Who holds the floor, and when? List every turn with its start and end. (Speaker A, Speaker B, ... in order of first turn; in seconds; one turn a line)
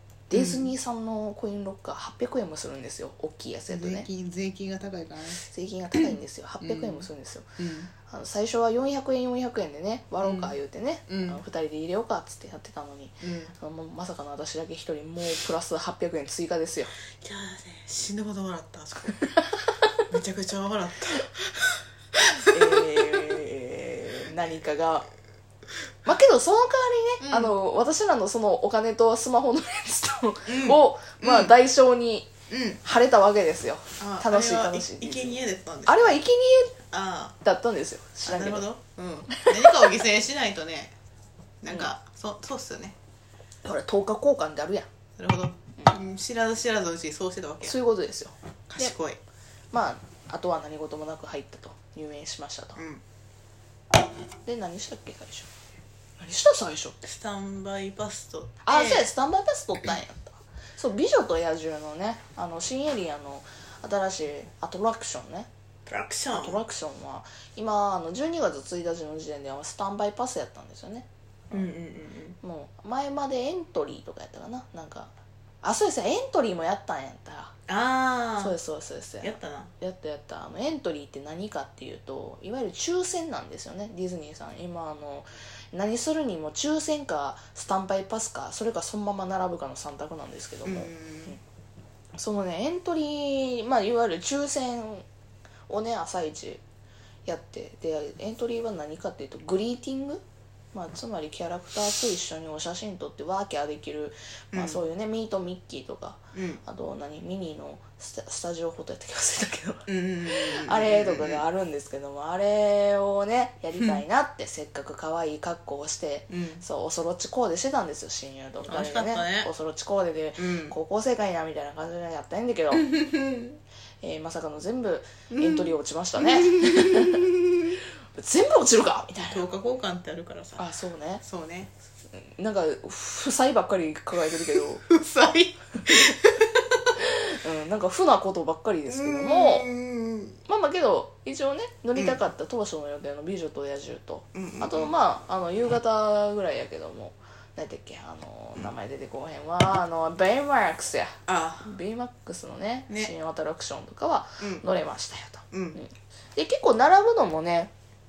Speaker A: 0.3-4.1
Speaker B: 0.3-0.7
Speaker B: 3.7-5.4
Speaker A: 5.4-17.0
Speaker B: 6.0-7.1
Speaker B: 7.6-7.9
Speaker B: 10.2-10.6
Speaker B: 11.1-11.4
Speaker B: 13.2-13.5
Speaker B: 17.0-19.3
Speaker B: 20.1-23.2
Speaker A: 22.5-25.1
Speaker A: 26.1-32.3
Speaker B: 27.2-27.6
Speaker B: 30.5-31.6
Speaker B: 32.5-32.8
Speaker A: 32.8-36.8
Speaker B: 34.0-36.2
Speaker B: 36.9-37.4
Speaker A: 37.4-38.7
Speaker B: 38.2-41.0
Speaker A: 39.3-39.9
Speaker B: 41.6-43.0
Speaker A: 43.6-44.9
Speaker B: 45.2-47.8
Speaker A: 47.6-48.9
Speaker B: 48.7-49.2
Speaker A: 49.7-52.8
Speaker B: 52.8-53.0
Speaker A: 54.5-55.5
Speaker A: 56.2-57.0
Speaker B: 57.0-59.1
Speaker A: 58.6-65.5
Speaker B: 65.9-66.6
Speaker A: 66.3-71.8
Speaker B: 71.5-72.4
Speaker A: 72.4-75.1
Speaker A: 75.6-77.5
Speaker B: 77.7-78.6
Speaker A: 78.4-91.4
Speaker B: 79.2-79.7
Speaker B: 90.7-91.4
Speaker A: 92.2-95.0
Speaker A: 95.7-96.6
Speaker A: 97.3-100.2
Speaker A: 100.7-122.9
Speaker B: 104.5-104.8
Speaker B: 106.3-106.6
Speaker B: 109.9-111.4
Speaker B: 116.3-116.6
Speaker B: 118.7-119.5
Speaker B: 120.4-120.8
Speaker B: 122.7-123.6
Speaker A: 124.0-127.3
Speaker B: 125.3-127.6
Speaker A: 128.2-129.5
Speaker B: 129.3-130.7
Speaker A: 130.6-131.2
Speaker B: 131.2-131.7
Speaker A: 132.2-134.8
Speaker B: 134.6-137.0
Speaker A: 137.0-139.7
Speaker B: 138.9-140.4
Speaker A: 140.5-157.7
Speaker B: 144.3-144.9
Speaker B: 151.3-151.8
Speaker B: 152.9-153.1
Speaker B: 154.4-154.7
Speaker B: 155.5-155.8